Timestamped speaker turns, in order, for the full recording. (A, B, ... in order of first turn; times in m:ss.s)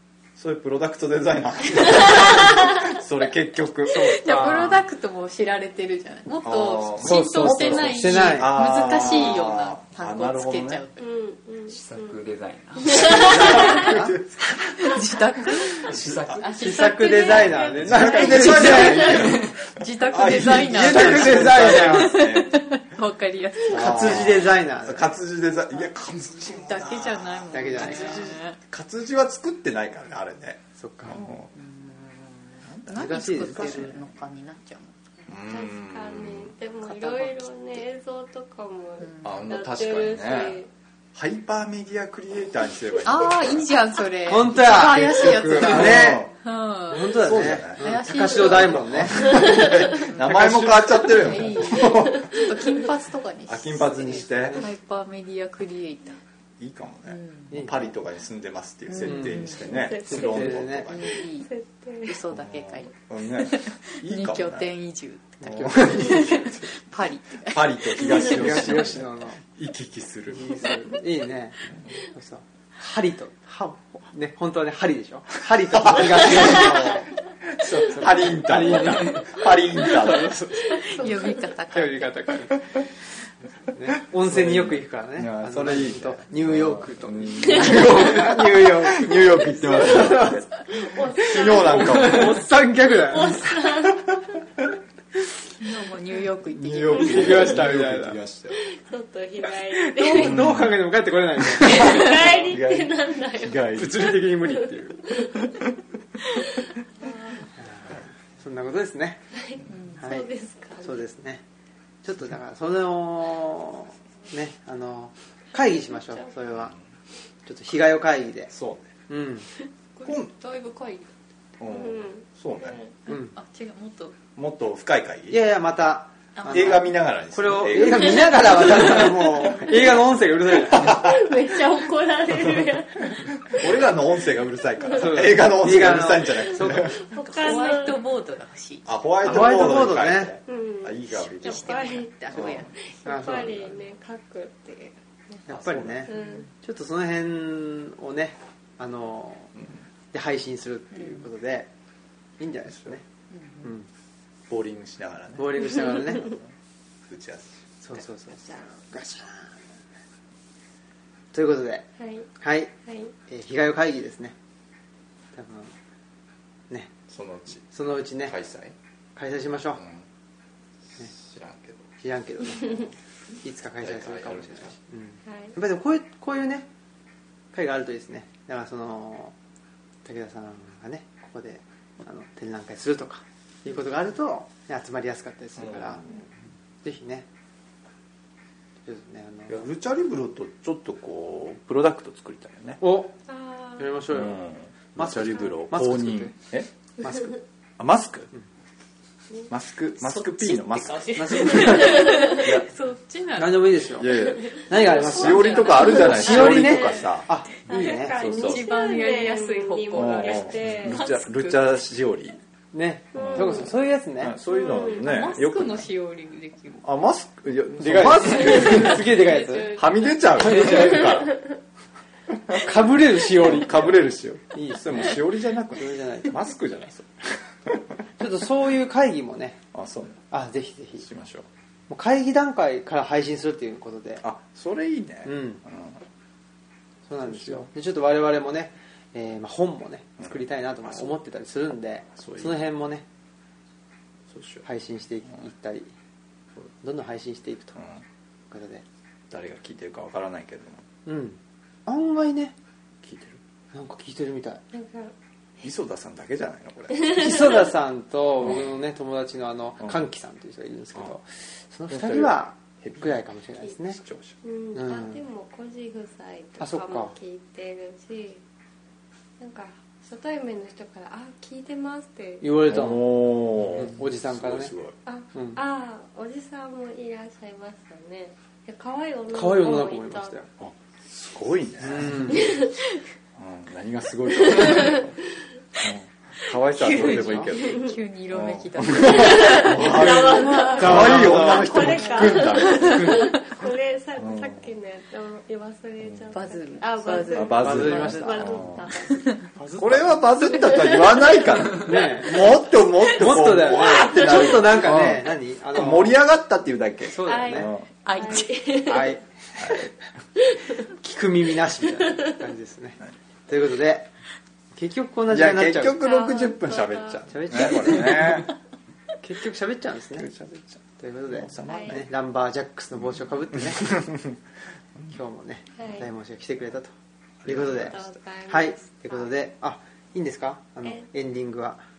0:00.4-0:04.8 A
0:01.9-0:02.7 B
0:03.9-0:04.8 C
0:04.0-0:11.0 B
0:06.4-0:10.9 A
0:07.0-0:08.5 C
0:11.0-0:12.2 D
0:11.7-0:13.4 E
0:12.9-0:13.7 D
0:13.0-0:13.9 B
0:13.1-0:14.2 C
0:13.2-0:14.4 A
0:14.6-0:24.4 B
0:15.8-0:16.8 E
0:16.0-0:19.2 C
0:16.1-0:16.4 A
0:17.5-0:22.7 A
0:17.6-0:18.4 D
0:19.0-0:19.6 E
0:20.4-0:22.3 C
0:23.7-0:25.2 C
0:23.7-0:31.5 A
0:26.4-0:28.6 B
0:27.5-0:28.3 C
0:30.8-0:31.2 C
0:31.1-0:35.3 B
0:32.8-0:33.4 A
0:32.9-0:34.0 C
0:35.3-0:36.5 A
0:35.5-0:40.7 D
0:36.8-0:37.3 B
0:39.0-0:39.3 B
0:39.2-0:43.8 A
0:43.0-0:48.8 B
0:44.2-0:46.3 C
0:44.6-0:46.3 A
0:46.9-0:51.3 C
0:47.2-0:52.4 A
0:49.8-0:50.4 B
0:51.1-0:56.2 B
0:53.5-0:54.6 A
0:54.1-0:54.6 C
0:56.6-1:01.2 A
0:57.1-0:57.5 B
0:57.5-0:57.9 C
0:58.9-0:59.7 B
0:59.0-0:59.4 C
0:59.6-1:02.2 D
1:00.0-1:00.9 C
1:00.9-1:01.5 B
1:02.1-1:08.7 B
1:02.3-1:04.7 A
1:05.4-1:06.3 C
1:05.4-1:06.7 A
1:07.4-1:10.6 A
1:08.1-1:09.4 C
1:10.3-1:17.1 C
1:15.8-1:16.9 A
1:17.5-1:20.3 A
1:17.8-1:22.8 C
1:20.7-1:22.5 B
1:23.7-1:30.4 C
1:24.2-1:32.4 A
1:29.7-1:30.2 D
1:30.8-1:32.4 D
1:31.4-1:33.6 C
1:33.1-1:34.2 D
1:35.6-1:37.6 B
1:36.6-1:38.6 A
1:36.9-1:38.2 C
1:38.5-1:40.4 D
1:39.8-1:42.4 C
1:40.2-1:40.8 A
1:41.6-1:44.2 A
1:41.6-1:43.8 D
1:43.7-1:45.0 C
1:45.1-1:45.5 D
1:45.2-1:45.6 A
1:47.0-1:47.5 D
1:47.6-1:49.3 C
1:49.4-1:51.0 D
1:49.7-1:50.0 B
1:50.0-1:50.3 C
1:50.8-1:51.4 C
1:52.0-1:56.7 C
1:56.5-1:56.8 A
1:57.4-1:58.5 C
1:58.5-1:58.9 A
1:59.1-1:59.5 C
2:00.0-2:01.1 B
2:00.0-2:00.3 A
2:01.6-2:02.8 A
2:01.7-2:02.9 D
2:03.1-2:03.3 C
2:03.1-2:04.2 B
2:04.4-2:05.4 A
2:05.3-2:11.1 C
2:06.4-2:06.7 B
2:06.4-2:09.6 A
2:10.8-2:13.8 D
2:13.5-2:17.0 A
2:14.9-2:17.0 C
2:16.7-2:18.1 D
2:17.2-2:18.9 B
2:18.8-2:22.7 A
2:19.2-2:20.4 C
2:20.5-2:25.4 D
2:21.2-2:22.8 B
2:23.0-2:23.6 C
2:25.5-2:29.6 C
2:25.5-2:26.1 A
2:26.1-2:26.4 D
2:26.1-2:26.5 B
2:30.1-2:31.7 C
2:32.4-2:33.0 C
2:33.3-2:33.7 B
2:34.5-2:36.4 A
2:35.4-2:36.4 C
2:37.1-2:37.5 A
2:37.8-2:39.6 C
2:38.4-2:38.8 D
2:41.3-2:42.7 C
2:42.0-2:42.3 D
2:42.8-2:43.1 D
2:43.2-2:44.4 C
2:45.3-2:45.7 C
2:47.1-2:47.6 A
2:47.7-2:48.4 C
2:48.2-2:48.7 A
2:49.2-2:49.8 C
2:49.8-2:50.0 A
2:51.2-2:51.9 A
2:52.0-2:52.9 C
2:53.4-2:56.7 C
2:53.8-2:54.7 A
2:55.3-2:55.5 D
2:57.5-2:59.4 C
3:00.0-3:06.1 C
3:05.7-3:06.2 A
3:06.8-3:07.3 C
3:08.9-3:09.7 C
3:09.5-3:12.8 A
3:12.8-3:13.2 C
3:13.3-3:13.9 D
3:13.8-3:14.4 C
3:14.1-3:17.1 A
3:15.0-3:16.3 C
3:17.8-3:18.3 A
3:19.5-3:22.6 A
3:20.0-3:23.9 B
3:21.1-3:22.3 C
3:21.6-3:22.5 D
3:23.4-3:28.2 C
3:24.0-3:27.3 A
3:24.9-3:27.1 B
3:25.8-3:27.1 D
3:27.7-3:31.0 D
3:28.0-3:28.7 A
3:28.2-3:31.7 B
3:29.9-3:32.4 A
3:32.7-3:34.4 C
3:33.1-3:33.7 D
3:33.1-3:33.7 A
3:34.2-3:35.9 A
3:34.5-3:35.0 D
3:34.7-3:36.8 B
3:36.8-3:41.4 A
3:37.8-3:39.8 C
3:38.4-3:40.7 B
3:40.4-3:41.2 C
3:40.8-3:41.5 D
3:42.5-3:46.4 C
3:43.3-3:47.8 A
3:48.2-3:49.6 C
3:49.7-3:50.2 A
3:50.3-3:51.1 C
3:51.0-3:51.5 A
3:51.9-3:54.2 C
3:54.2-3:56.0 A
3:55.2-3:55.6 C
3:57.1-4:03.1 C
3:57.3-3:57.7 A
4:02.2-4:02.6 A
4:04.3-4:04.6 A
4:04.6-4:05.9 C
4:06.7-4:07.8 C
4:07.8-4:08.0 A
4:08.5-4:08.8 C
4:09.3-4:10.8 A
4:11.1-4:12.6 C
4:13.0-4:13.4 A
4:13.7-4:14.6 C
4:14.7-4:15.1 D
4:15.6-4:17.3 A
4:17.0-4:24.0 C
4:21.9-4:23.2 A
4:23.9-4:24.4 A
4:24.4-4:28.4 D
4:24.7-4:25.2 C
4:26.6-4:27.2 C
4:29.4-4:32.8 D
4:32.4-4:33.2 C
4:32.7-4:35.0 A
4:33.7-4:34.7 C
4:35.1-4:40.4 D
4:35.3-4:35.6 C
4:39.3-4:40.5 C
4:40.6-4:42.5 A
4:41.8-4:42.5 C
4:42.3-4:42.7 D
4:43.4-4:45.2 A
4:44.4-4:45.1 D
4:45.8-4:53.3 A
4:46.8-4:51.1 B
4:46.9-4:47.5 C
4:47.6-4:47.9 D
4:49.1-4:59.3 D
4:50.7-4:53.3 C
4:53.0-4:53.5 B
4:54.2-4:54.7 A
4:56.3-4:58.1 B
4:57.3-4:58.9 A
4:57.5-4:58.6 C
4:59.6-5:00.3 C
4:59.7-5:07.8 A
5:00.5-5:01.5 D
5:01.7-5:06.2 C
5:04.0-5:04.5 D
5:07.1-5:07.7 C
5:07.2-5:09.1 D
5:08.0-5:08.6 B
5:08.9-5:09.8 C
5:09.6-5:09.9 A
5:10.9-5:14.1 C
5:14.7-5:16.0 C
5:15.3-5:18.5 A
5:15.9-5:17.9 D
5:17.3-5:18.4 C
5:19.2-5:20.3 C
5:20.2-5:20.8 A
5:21.0-5:24.1 C
5:21.3-5:22.1 A
5:21.6-5:22.0 D
5:23.8-5:24.3 A
5:25.1-5:26.9 C
5:25.8-5:26.0 D
5:27.4-5:28.1 A
5:27.4-5:28.0 C
5:27.6-5:29.4 D
5:28.5-5:31.8 C